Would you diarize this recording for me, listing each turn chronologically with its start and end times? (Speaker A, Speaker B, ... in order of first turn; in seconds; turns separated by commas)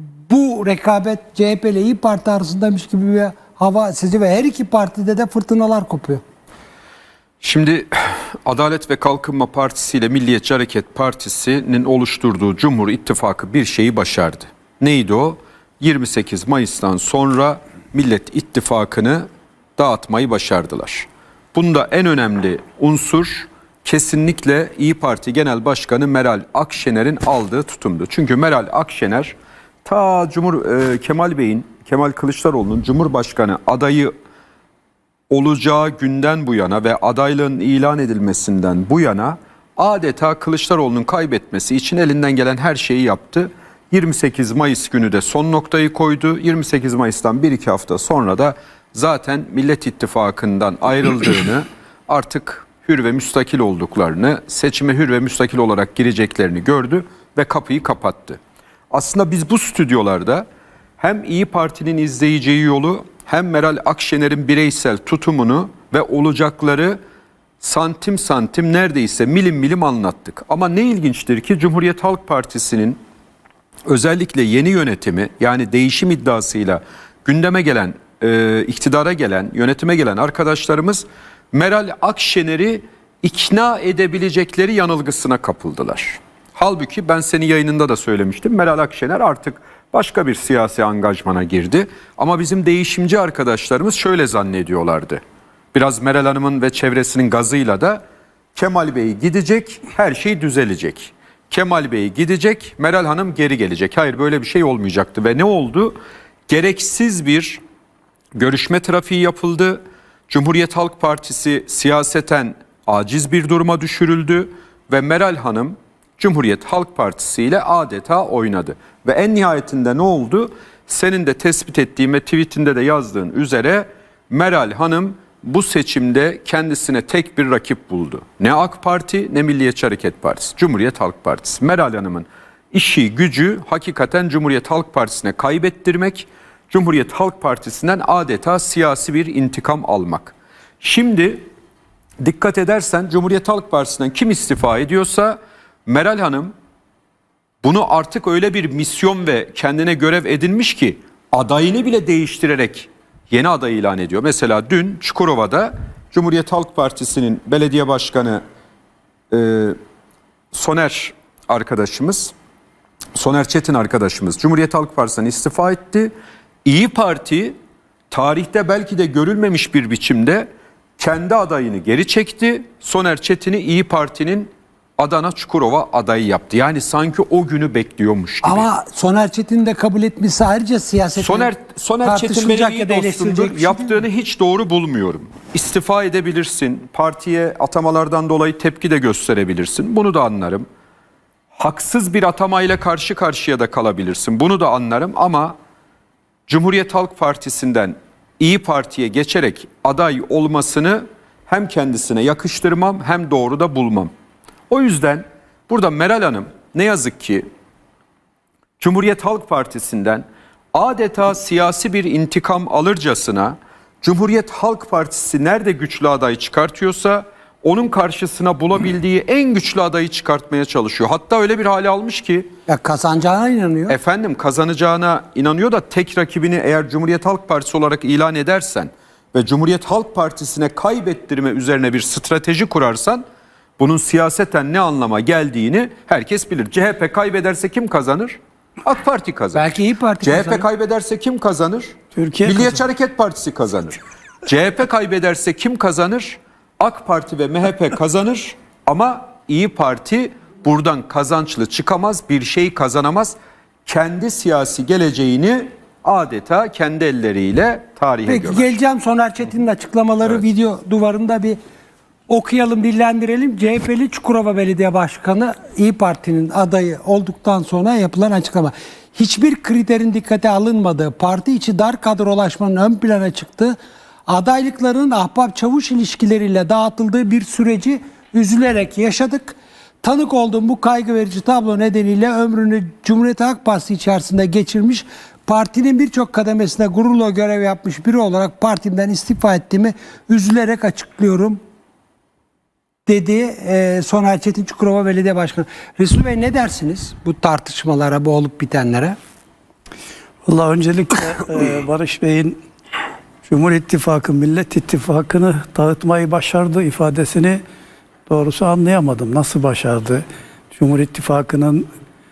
Speaker A: 0.3-6.2, Speaker B: 7.4-29.3, Speaker B: 29.8-34.1, Speaker B: 35.3-58.4, Speaker B: 58.9-60.5, Speaker B: 61.0-67.0, Speaker B: 67.6-73.0, Speaker B: 73.9-95.2, Speaker B: 95.7-98.0, Speaker B: 98.5-106.0, Speaker B: 106.5-107.6, Speaker B: 108.3-141.5, Speaker B: 142.2-146.5, Speaker B: 147.6-158.4, Speaker B: 159.3-159.7, Speaker B: 160.5-162.3, Speaker B: 163.1-166.1, Speaker B: 166.6-167.5, Speaker B: 168.1-178.7, Speaker A: 178.4-181.5, Speaker B: 181.2-190.6, Speaker A: 182.0-184.0, Speaker B: 191.6-195.5, Speaker B: 196.5-204.1, Speaker B: 204.7-207.4, Speaker B: 208.8-222.5, Speaker A: 222.7-224.0, Speaker B: 223.9-233.2, Speaker B: 233.8-239.7, Speaker A: 239.5-240.7, Speaker B: 240.2-258.7, Speaker C: 242.1-242.8, Speaker A: 258.3-261.6, Speaker A: 262.3-291.6, Speaker A: 293.1-299.1, Speaker C: 300.4-302.6, Speaker C: 303.4-307.6, Speaker C: 308.3-311.9